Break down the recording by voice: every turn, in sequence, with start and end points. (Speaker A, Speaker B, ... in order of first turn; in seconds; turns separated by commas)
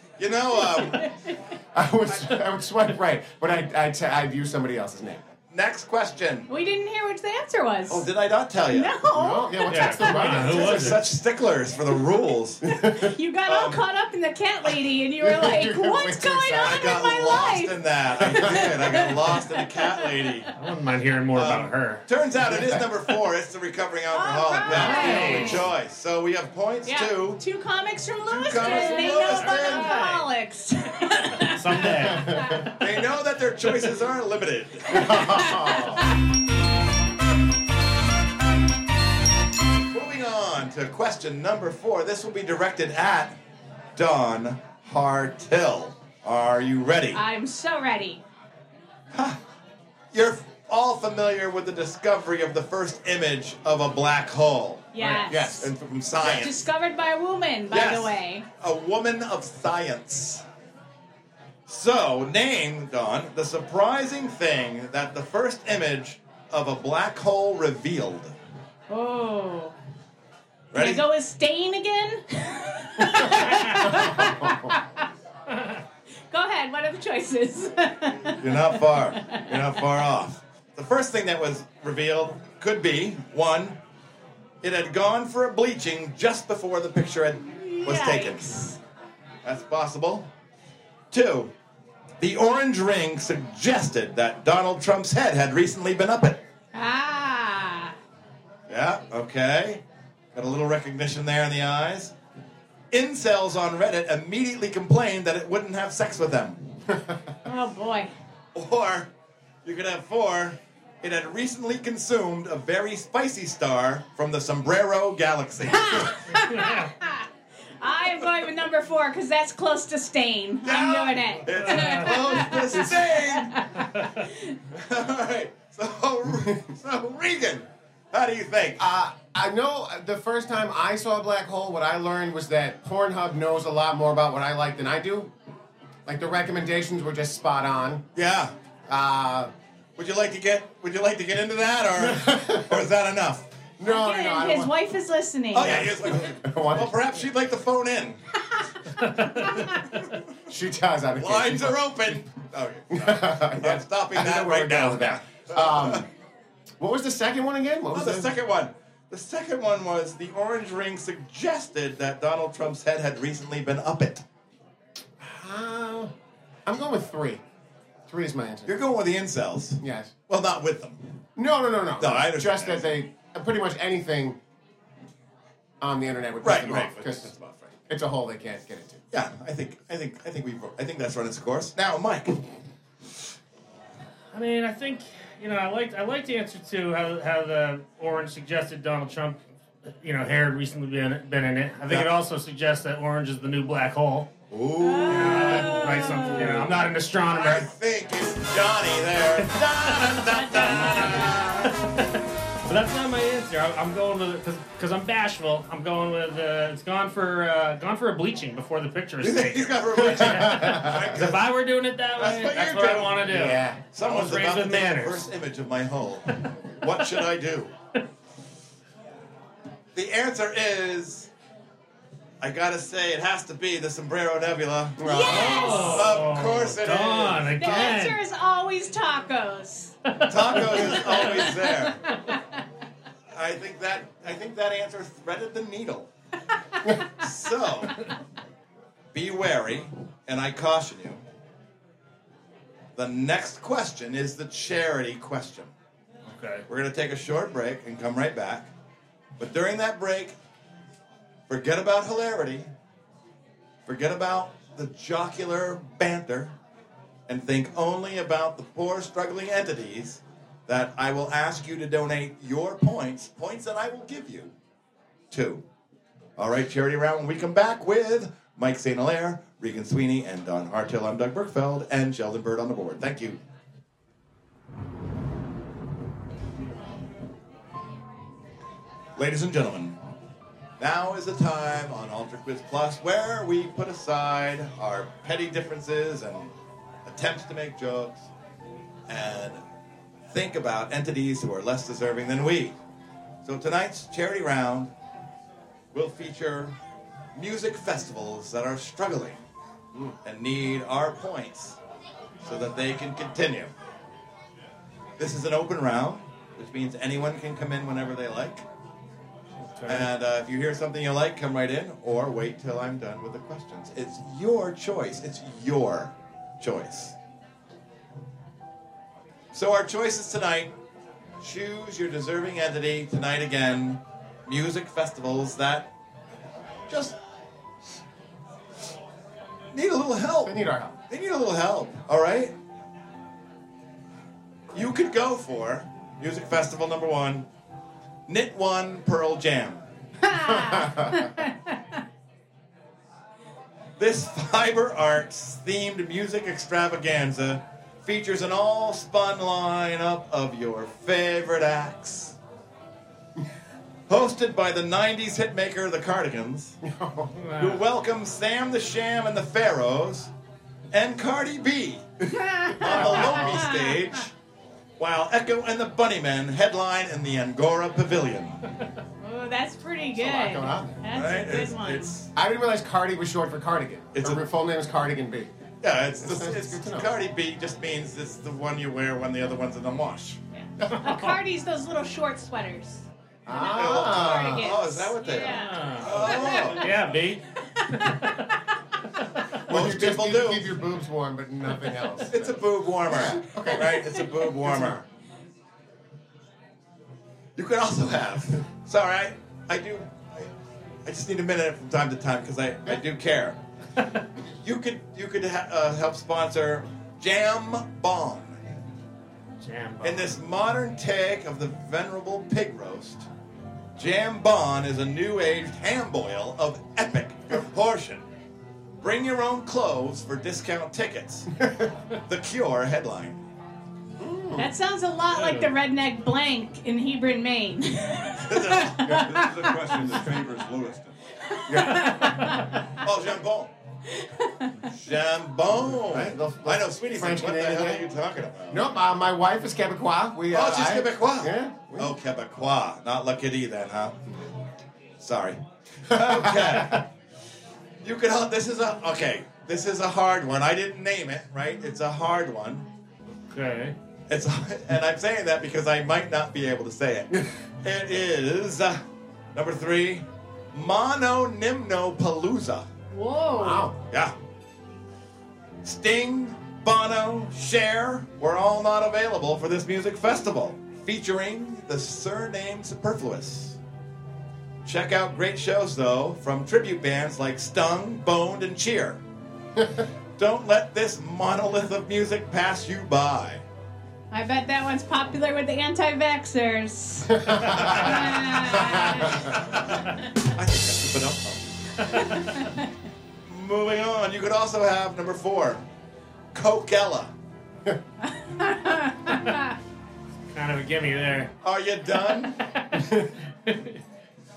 Speaker A: 0.2-1.1, Speaker B: 0.5-1.5, Speaker C: 1.7-5.2, Speaker A: 5.5-6.5, Speaker B: 6.5-8.1, Speaker A: 7.9-8.9, Speaker B: 8.7-10.5, Speaker C: 9.1-11.0, Speaker D: 9.7-11.0, Speaker A: 10.3-12.6, Speaker C: 12.6-13.1, Speaker B: 12.8-20.5, Speaker A: 13.4-13.8, Speaker C: 15.2-17.0, Speaker A: 16.6-20.5, Speaker C: 18.3-18.7, Speaker D: 20.6-22.0, Speaker A: 21.3-27.4, Speaker C: 22.5-22.8, Speaker B: 24.1-25.6, Speaker C: 24.7-25.7, Speaker D: 24.7-25.6, Speaker B: 26.8-32.7, Speaker A: 28.2-30.0, Speaker D: 28.6-30.2, Speaker D: 31.4-32.7, Speaker C: 32.0-32.6, Speaker A: 32.8-35.5, Speaker B: 34.9-36.2, Speaker C: 34.9-36.0, Speaker A: 39.9-43.3, Speaker A: 44.0-47.2, Speaker B: 47.1-48.2, Speaker A: 49.1-49.4, Speaker A: 50.1-56.6, Speaker B: 54.9-55.7, Speaker C: 55.3-55.7, Speaker B: 56.2-58.5, Speaker A: 57.7-60.4, Speaker A: 61.7-68.3, Speaker B: 68.9-69.7, Speaker A: 70.7-71.0, Speaker B: 70.7-75.0, Speaker D: 73.3-74.0, Speaker B: 76.3-79.5, Speaker A: 78.4-83.8, Speaker A: 84.6-88.4, Speaker B: 87.5-88.8, Speaker A: 89.4-90.3, Speaker A: 91.1-91.5, Speaker A: 92.2-96.4, Speaker B: 96.7-98.0, Speaker A: 98.7-99.8, Speaker A: 100.3-102.1, Speaker A: 102.9-106.7, Speaker B: 107.4-108.1, Speaker A: 108.5-109.1, Speaker A: 109.6-116.2, Speaker B: 115.7-117.3, Speaker D: 116.4-116.9, Speaker B: 117.8-124.5, Speaker A: 120.6-123.7, Speaker D: 121.5-122.4, Speaker A: 124.7-128.8, Speaker C: 128.8-135.3, Speaker C: 136.1-138.0, Speaker A: 138.1-138.5, Speaker C: 138.9-139.5, Speaker A: 140.0-143.5, Speaker C: 142.0-142.9, Speaker C: 143.8-144.7, Speaker B: 143.8-145.9, Speaker A: 145.5-148.2, Speaker C: 145.6-147.0, Speaker A: 149.5-150.2, Speaker C: 150.5-152.2, Speaker A: 151.2-156.0, Speaker C: 152.9-156.1, Speaker C: 156.8-158.3, Speaker A: 157.9-164.2, Speaker C: 165.2-166.1, Speaker C: 166.7-167.4, Speaker C: 168.1-168.8, Speaker A: 168.7-171.2, Speaker C: 169.8-170.1, Speaker C: 171.3-174.4, Speaker A: 172.0-172.9, Speaker C: 175.8-179.0, Speaker A: 176.4-177.3, Speaker A: 179.1-182.4, Speaker D: 184.3-189.4, Speaker D: 190.0-194.3, Speaker A: 194.5-201.9, Speaker B: 194.8-196.7, Speaker D: 195.1-197.7, Speaker D: 199.9-202.0, Speaker D: 202.6-215.2, Speaker A: 209.2-211.4, Speaker C: 210.2-211.0, Speaker A: 212.2-213.2, Speaker C: 213.2-213.8, Speaker A: 213.9-217.7, Speaker A: 219.9-221.3, Speaker A: 222.4-227.9, Speaker C: 225.0-225.9, Speaker B: 225.0-226.1, Speaker D: 225.2-228.2, Speaker B: 227.6-229.9, Speaker A: 230.2-232.0, Speaker D: 230.3-232.1, Speaker B: 230.5-231.5, Speaker A: 233.3-236.1, Speaker A: 236.9-238.1, Speaker A: 239.1-241.2, Speaker A: 242.9-245.7, Speaker D: 246.3-246.6, Speaker A: 246.7-248.7, Speaker A: 249.4-250.3, Speaker A: 251.5-252.7, Speaker A: 253.8-256.5, Speaker A: 257.3-264.5, Speaker A: 265.3-265.6, Speaker A: 266.4-273.4, Speaker A: 279.1-280.0, Speaker A: 280.8-286.5, Speaker A: 287.0-288.3, Speaker A: 289.1-289.6, Speaker A: 290.3-292.7, Speaker A: 293.4-294.9, Speaker A: 295.9-296.7, Speaker A: 297.3-299.4, Speaker A: 300.2-301.8, Speaker A: 302.4-303.7, Speaker A: 305.2-308.6, Speaker D: 309.7-310.1, Speaker A: 309.9-317.1, Speaker A: 319.5-320.7, Speaker A: 321.4-325.9, Speaker A: 326.9-327.1, Speaker A: 329.7-330.6, Speaker C: 330.4-331.0, Speaker A: 331.1-332.5, Speaker A: 334.7-337.4, Speaker A: 338.3-339.8, Speaker B: 340.2-341.8, Speaker C: 340.5-341.1, Speaker A: 344.0-352.4, Speaker A: 354.1-356.8, Speaker C: 356.8-357.3, Speaker D: 357.4-357.8, Speaker A: 357.6-360.3, Speaker A: 360.9-362.0, Speaker B: 362.4-363.9, Speaker A: 362.7-364.3, Speaker C: 362.8-363.4, Speaker A: 365.0-368.6, Speaker B: 369.2-372.1, Speaker C: 370.1-371.0, Speaker A: 371.1-372.3, Speaker C: 372.3-375.5, Speaker A: 374.1-374.4, Speaker A: 375.8-380.4, Speaker C: 376.2-377.1, Speaker B: 380.5-388.4, Speaker C: 383.4-384.8, Speaker A: 383.6-386.9, Speaker D: 385.4-388.4, Speaker A: 389.7-390.6, Speaker C: 389.7-394.1, Speaker A: 392.3-395.0, Speaker B: 393.7-394.2, Speaker C: 394.6-395.0, Speaker A: 397.6-400.5, Speaker A: 401.0-403.6, Speaker A: 404.4-408.6, Speaker D: 409.6-410.3, Speaker A: 410.0-413.2, Speaker A: 413.9-418.2, Speaker A: 419.0-423.4, Speaker C: 424.2-424.7, Speaker B: 424.6-430.2, Speaker D: 425.3-425.7, Speaker A: 428.4-429.1, Speaker E: 429.0-431.1, Speaker B: 431.5-432.9, Speaker C: 431.7-432.2, Speaker A: 432.9-433.7, Speaker B: 434.1-434.9, Speaker A: 434.9-438.8, Speaker C: 435.9-438.0, Speaker C: 438.7-442.1, Speaker A: 440.5-444.2, Speaker A: 445.2-447.0, Speaker C: 446.2-447.0, Speaker A: 448.0-452.8, Speaker D: 453.5-453.9, Speaker A: 454.3-459.0, Speaker A: 459.5-462.9, Speaker B: 463.1-463.9, Speaker C: 463.6-463.9, Speaker A: 465.8-473.8, Speaker A: 474.8-479.2, Speaker A: 480.4-483.6, Speaker B: 484.3-489.5, Speaker C: 487.4-487.9, Speaker A: 487.7-492.5, Speaker C: 488.9-489.3, Speaker B: 492.1-492.9, Speaker A: 493.4-495.8, Speaker A: 496.5-497.3, Speaker B: 498.2-499.7, Speaker D: 500.5-501.5, Speaker A: 501.6-502.6, Speaker D: 502.7-504.0